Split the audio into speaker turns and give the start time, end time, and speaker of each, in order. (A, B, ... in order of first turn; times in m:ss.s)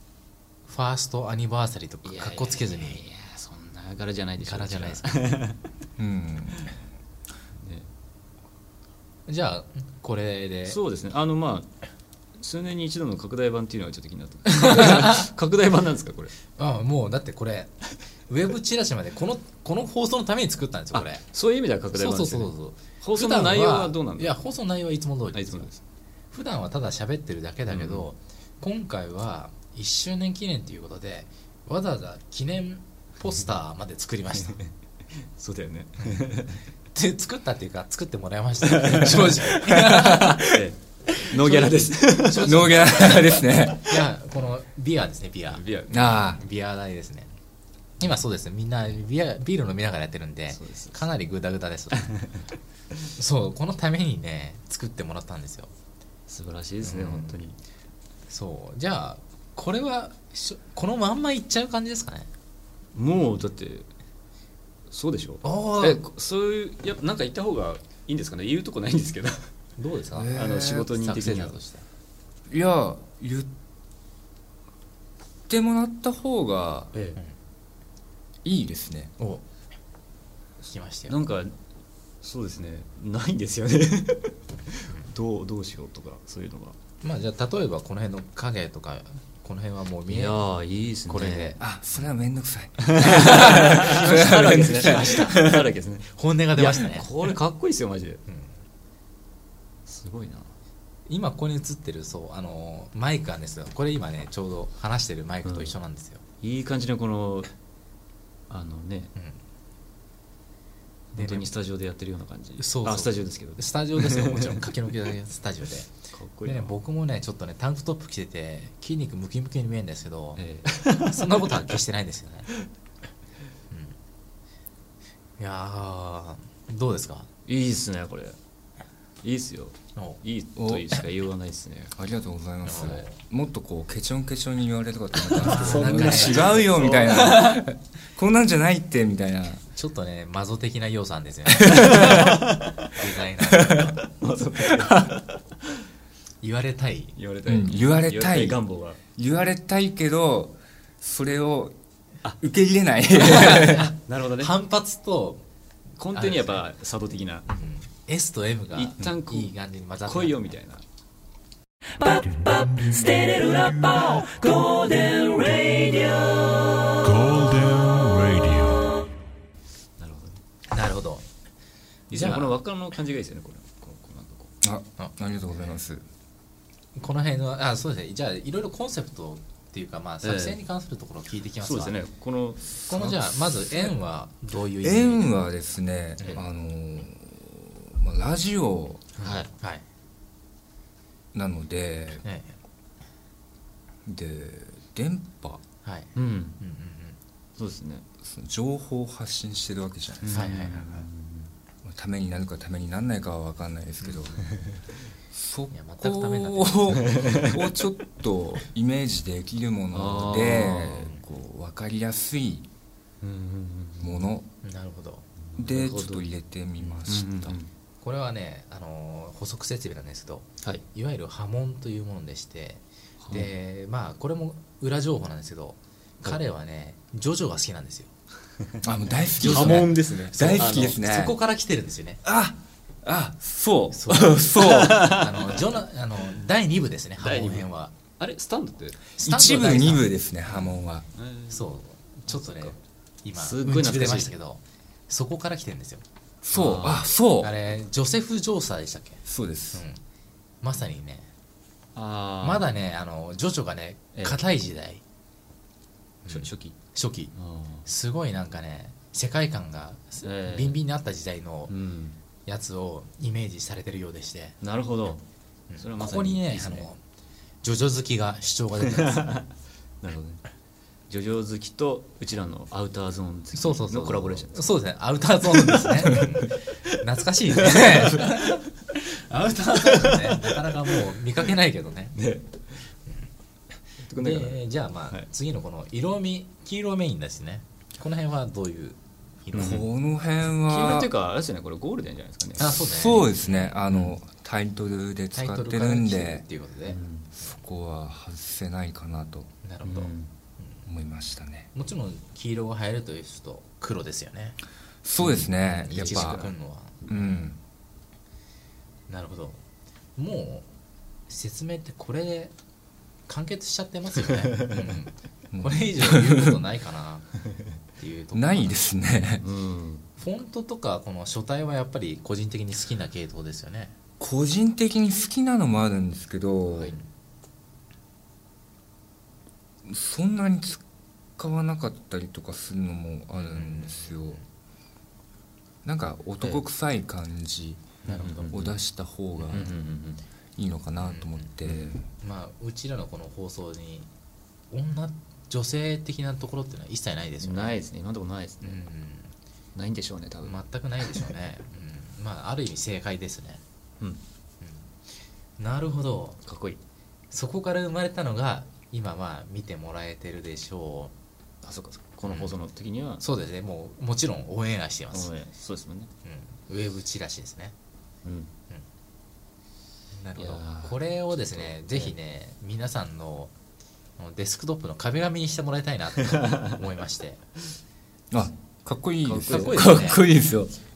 0:00.6-0:03.0 A
0:02.0-0:05.6 B
0:04.4-0:05.0 A
0:06.0-0:06.7 C
0:07.6-0:07.9 B
0:09.3-0:10.8 A
0:10.6-0:11.7 B
0:12.4-0:16.3 B
0:14.5-0:15.2 A
0:16.5-0:17.7 A
0:18.3-0:21.2 A
0:20.9-0:24.4 B
0:21.9-0:25.7 A
0:25.3-0:25.8 B
0:26.3-0:34.6 A
0:27.7-0:28.1 B
0:34.4-0:34.7 B
0:35.4-0:36.6 B
0:36.9-0:40.6 A
0:38.7-0:43.3 B
0:41.3-0:47.3 A
0:42.3-0:44.0 C
0:45.5-0:46.2 B
0:45.9-0:46.4 C
0:48.0-0:52.1 A
0:50.5-0:51.0 B
0:52.0-0:52.4 B
0:53.2-0:55.7 A
0:56.3-0:57.6 B
0:56.8-0:57.4 A
0:58.3-1:02.3 A
1:02.9-1:03.9 B
1:04.9-1:09.4 B
1:05.4-1:06.0 A
1:09.8-1:11.8 A
1:10.1-1:10.9 C
1:10.3-1:11.6 B
1:12.5-1:13.5 C
1:15.5-1:16.9 C
1:16.9-1:17.2 B
1:18.4-1:19.1 C
1:20.6-1:21.2 A
1:21.1-1:21.5 B
1:22.2-1:26.8 B
1:27.0-1:30.4 A
1:30.1-1:31.6 B
1:31.1-1:31.6 A
1:31.6-1:35.5 C
1:32.8-1:38.2 B
1:33.2-1:35.5 A
1:36.1-1:37.1 A
1:38.3-1:38.6 A
1:39.9-1:40.5 B
1:41.1-1:46.2 A
1:45.4-1:45.7 B
1:46.4-1:47.5 B
1:48.5-1:49.1 B
1:51.1-1:54.8 B
1:51.2-1:51.5 A
1:52.6-1:55.9 A
1:56.1-1:56.7 B
1:56.4-2:00.4 A
2:00.4-2:01.5 B
2:01.0-2:02.5 A
2:03.7-2:03.9 A
2:05.4-2:07.3 A
2:07.5-2:08.4 B
2:09.2-2:11.9 B
2:10.0-2:10.2 A
2:10.6-2:11.0 C
2:12.0-2:19.6 C
2:12.6-2:13.2 A
2:12.7-2:13.0 B
2:15.2-2:17.5 B
2:15.3-2:16.7 A
2:17.3-2:17.6 A
2:19.7-2:24.0 A
2:21.6-2:22.9 B
2:24.2-2:25.4 B
2:26.4-2:27.1 A
2:27.2-2:29.0 B
2:27.4-2:28.6 C
2:29.2-2:31.7 C
2:32.4-2:33.9 C
2:33.1-2:35.4 A
2:33.2-2:34.6 B
2:36.0-2:37.4 B
2:36.1-2:36.6 A
2:37.5-2:40.4 A
2:38.7-2:39.5 B
2:40.0-2:40.8 B
2:42.0-2:47.7 B
2:50.0-2:50.4 B
2:50.7-2:51.2 A
2:52.1-2:54.5 B
2:52.1-2:52.6 A
2:54.6-2:56.0 C
2:57.0-3:02.0 A
3:00.2-3:00.6 B
3:01.6-3:02.8 B
3:02.8-3:05.4 A
3:02.9-3:03.7 C
3:04.8-3:09.0 C
3:06.2-3:06.4 A
3:09.2-3:09.5 B
3:09.2-3:09.8 A
3:11.3-3:12.2 C
3:12.2-3:12.6 A
3:14.0-3:15.6 C
3:15.8-3:17.2 A
3:16.1-3:16.6 B
3:17.6-3:18.0 B
3:18.2-3:20.9 C
3:20.2-3:21.5 B
3:20.3-3:21.0 A
3:21.8-3:24.4 C
3:24.4-3:24.7 B
3:25.3-3:32.7 C
3:25.7-3:26.9 A
3:26.9-3:27.7 B
3:29.9-3:31.2 B
3:33.2-3:34.3 B
3:34.0-3:34.5 C
3:34.6-3:35.3 A
3:35.5-3:37.7 B
3:35.6-3:37.6 C
3:38.0-3:48.1 A
3:43.2-3:43.5 B
3:48.8-3:51.4 C
3:49.2-3:52.2 A
3:49.4-3:51.0 B
3:52.2-3:55.2 C
3:53.9-3:54.4 A
3:54.5-3:55.6 B
3:55.0-3:57.9 A
3:57.2-3:59.0 B
3:59.1-4:00.1 A
3:59.2-4:01.0 C
4:00.5-4:01.7 B
4:01.5-4:06.0 A
4:02.3-4:02.8 B
4:03.4-4:04.3 B
4:06.4-4:07.6 C
4:06.5-4:07.1 B
4:07.4-4:10.0 A
4:09.2-4:09.8 C
4:10.6-4:11.3 A
4:12.0-4:12.7 B
4:12.4-4:15.0 A
4:16.2-4:17.3 A
4:16.3-4:16.8 B
4:17.4-4:17.8 B
4:17.8-4:21.7 A
4:20.2-4:20.8 B
4:21.7-4:22.2 B
4:22.4-4:24.6 A
4:24.6-4:25.2 B
4:25.7-4:27.0 A
4:25.8-4:26.9 B
4:27.6-4:29.4 A
4:28.8-4:29.4 B
4:30.0-4:30.4 B
4:31.1-4:34.7 B
4:33.5-4:42.2 A
4:35.5-4:36.5 B
4:37.6-4:38.5 B
4:39.6-4:40.7 B
4:42.2-4:42.8 B
4:44.0-4:45.3 B
4:44.2-4:49.8 A
4:49.5-4:49.9 B
4:49.6-4:51.1 C
4:50.5-4:52.8 B
4:52.6-4:53.4 A
4:52.6-4:56.4 C
4:53.4-4:54.2 B
4:55.3-4:57.6 A
4:56.9-4:57.3 B
4:57.4-4:59.5 C
4:59.6-5:00.8 A
4:59.8-5:00.3 B
5:00.8-5:01.7 C
5:01.7-5:04.6 A
5:05.0-5:06.5 C
5:05.2-5:07.2 B
5:05.6-5:07.1 A
5:07.1-5:07.6 C
5:09.1-5:09.6 A
5:10.2-5:10.7 A
5:11.3-5:12.5 A
5:13.3-5:17.3 A
5:14.6-5:14.9 B
5:15.5-5:16.6 C
5:18.0-5:18.8 A
5:18.3-5:19.4 C
5:19.4-5:20.0 B
5:20.2-5:23.9 A
5:24.2-5:27.0 C
5:29.8-5:30.8 C
5:31.4-5:34.4 C
5:33.3-5:34.4 A
5:35.8-5:39.8 C
5:38.0-5:38.8 B
5:38.0-5:38.6 A
5:39.4-5:39.7 A
5:39.5-5:40.2 B
5:40.6-5:42.0 C
5:41.0-5:41.5 A
5:41.6-5:42.0 B
5:42.1-5:44.1 A
5:44.7-5:47.8 A
5:47.4-5:48.8 B
5:48.6-5:49.3 A
5:49.8-5:51.2 B
5:50.4-5:53.6 A
5:54.6-5:54.9 A
5:55.6-5:56.4 A
5:56.4-5:56.8 B
5:57.3-6:01.1 A
6:01.6-6:03.2 B
6:02.2-6:02.5 A
6:03.2-6:05.3 A
6:05.1-6:06.1 B
6:06.2-6:07.7 A
6:08.2-6:08.5 B
6:10.2-6:13.5 A
6:10.4-6:12.1 B
6:14.2-6:17.4 A
6:18.3-6:20.7 C
6:19.2-6:20.1 B
6:19.5-6:20.3 A